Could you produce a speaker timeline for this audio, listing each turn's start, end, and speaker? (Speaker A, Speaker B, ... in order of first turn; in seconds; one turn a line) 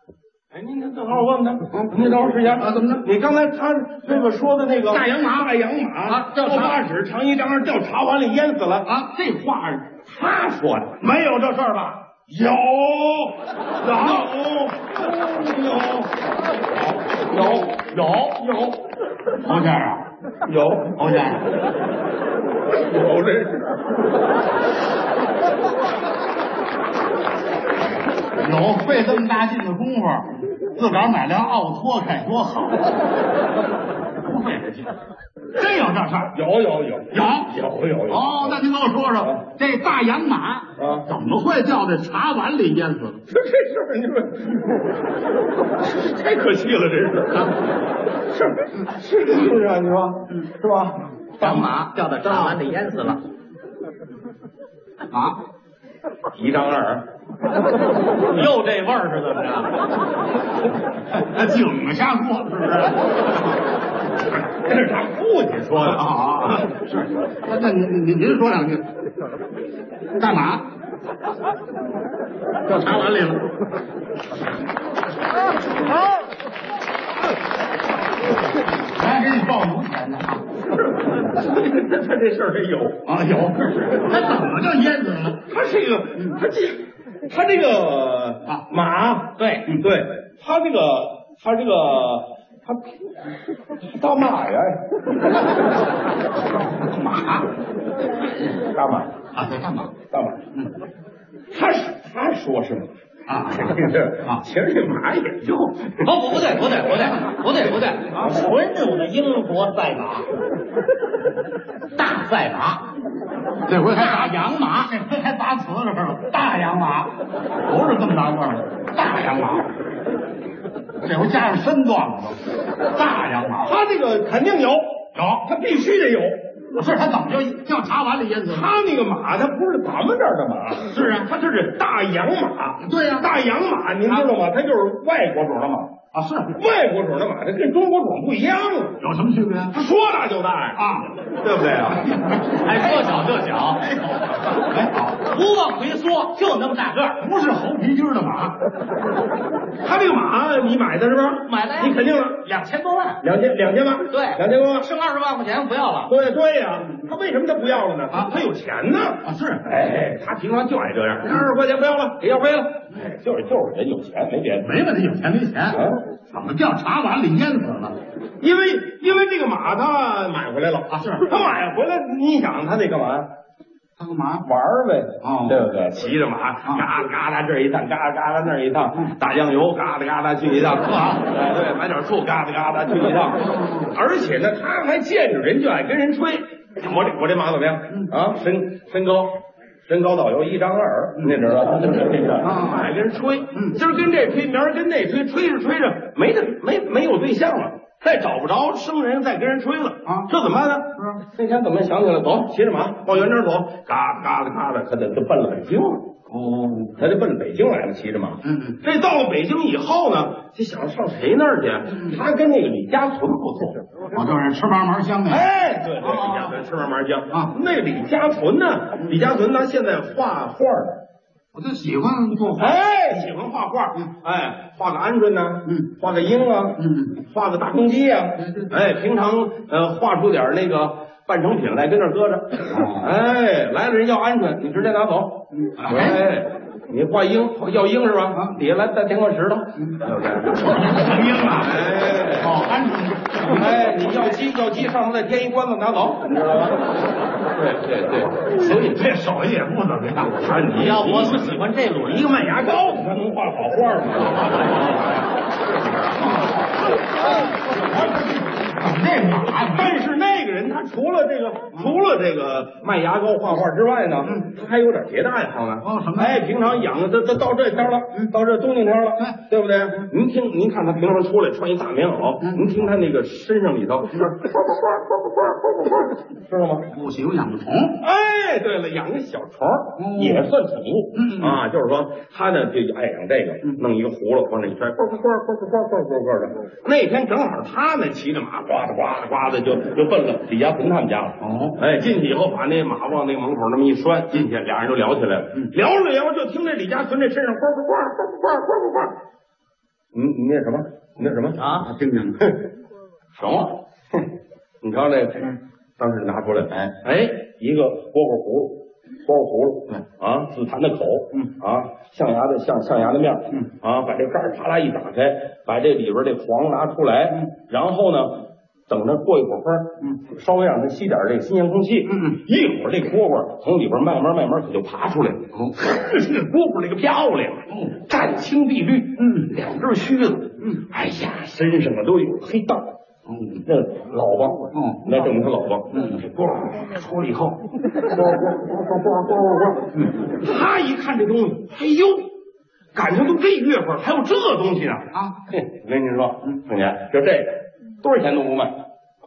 Speaker A: 0.5-8.9
Speaker B: 1.7-3.1
Speaker B: 4.9-6.8
Speaker B: 8.9-9.9
Speaker A: 9.9-11.1
Speaker B: 11.0-12.0
Speaker A: 12.1-16.1
Speaker B: 13.9-14.2
Speaker A: 17.2-18.8
Speaker B: 19.4-20.1
Speaker A: 20.4-21.0
Speaker B: 21.0-21.5
Speaker A: 22.7-23.8
Speaker B: 28.4-33.0
Speaker B: 34.3-34.9
Speaker B: 35.6-36.4
Speaker A: 36.3-38.6
Speaker B: 37.1-37.5
Speaker B: 38.1-43.2
Speaker A: 40.8-41.1
Speaker A: 43.3-44.8
Speaker A: 45.8-47.5
Speaker A: 48.3-51.6
Speaker C: 51.4-53.2
Speaker B: 55.1-55.4
Speaker A: 56.3-57.1
Speaker C: 58.3-59.8
Speaker B: 61.1-63.5
Speaker A: 64.5-66.6
Speaker B: 65.8-68.9
Speaker B: 70.2-70.7
Speaker B: 72.7-73.5
Speaker B: 78.9-80.5
Speaker A: 80.8-83.0
Speaker B: 83.1-85.5
Speaker A: 85.5-92.9
Speaker B: 86.2-86.4
Speaker C: 89.4-89.7
Speaker A: 93.8-94.8
Speaker B: 96.5-97.5
Speaker A: 98.7-99.2
Speaker B: 99.3-99.9
Speaker A: 100.1-100.4
Speaker A: 101.5-102.9
Speaker B: 103.3-104.4
Speaker A: 103.5-106.1
Speaker C: 106.0-110.3
Speaker A: 108.2-108.5
Speaker C: 112.0-112.9
Speaker B: 113.7-119.7
Speaker C: 113.9-114.9
Speaker B: 121.0-123.7
Speaker A: 123.6-126.4
Speaker B: 125.2-125.5
Speaker B: 126.7-128.7
Speaker A: 128.5-135.9
Speaker B: 130.8-131.3
Speaker B: 132.8-133.3
Speaker B: 136.1-136.6
Speaker A: 136.5-139.0
Speaker B: 139.0-139.8
Speaker A: 139.7-140.9
Speaker B: 140.8-141.1
Speaker A: 141.4-142.1
Speaker B: 141.9-145.3
Speaker C: 142.6-143.8
Speaker C: 145.2-147.2
Speaker B: 147.2-148.6
Speaker A: 149.8-152.4
Speaker C: 151.4-153.2
Speaker A: 153.2-154.9
Speaker C: 154.1-156.1
Speaker A: 156.1-164.8
Speaker B: 159.2-159.7
Speaker B: 164.6-168.0
Speaker A: 165.7-166.0
Speaker A: 168.4-173.3
Speaker B: 170.9-171.3
Speaker B: 174.0-174.5
Speaker A: 174.4-206.1
Speaker B: 175.2-175.7
Speaker B: 180.9-181.2
Speaker B: 183.4-184.0
Speaker B: 191.2-191.8
Speaker B: 192.4-192.9
Speaker B: 193.5-193.8
Speaker B: 206.3-207.0
Speaker A: 207.0-213.8
Speaker B: 208.4-208.8
Speaker B: 211.9-212.2
Speaker B: 214.1-216.6
Speaker A: 215.3-221.0
Speaker B: 221.5-222.8
Speaker A: 222.6-242.6
Speaker B: 225.7-225.9
Speaker B: 226.8-227.2
Speaker B: 228.4-228.8
Speaker B: 232.7-233.2
Speaker B: 235.5-236.2
Speaker B: 238.3-238.6
Speaker B: 240.6-241.8
Speaker B: 242.4-243.8
Speaker A: 243.4-246.8
Speaker A: 247.6-249.0
Speaker B: 248.6-250.5
Speaker A: 250.4-255.0
Speaker C: 250.8-252.5
Speaker B: 256.1-260.0
Speaker A: 259.7-276.9
Speaker B: 265.8-266.4
Speaker B: 272.4-272.8
Speaker B: 276.9-278.0
Speaker A: 278.0-299.1
Speaker B: 280.0-280.5
Speaker B: 281.1-281.6
Speaker B: 291.4-291.8
Speaker A: 300.1-301.6
Speaker C: 301.6-301.9
Speaker B: 301.8-302.4
Speaker A: 303.4-304.3
Speaker A: 304.8-332.9
Speaker B: 322.1-322.4
Speaker B: 327.7-328.0
Speaker B: 329.2-329.5
Speaker B: 333.3-333.7
Speaker A: 333.7-342.3
Speaker B: 334.7-335.2
Speaker B: 335.9-336.2
Speaker A: 342.9-348.7
Speaker B: 345.1-345.4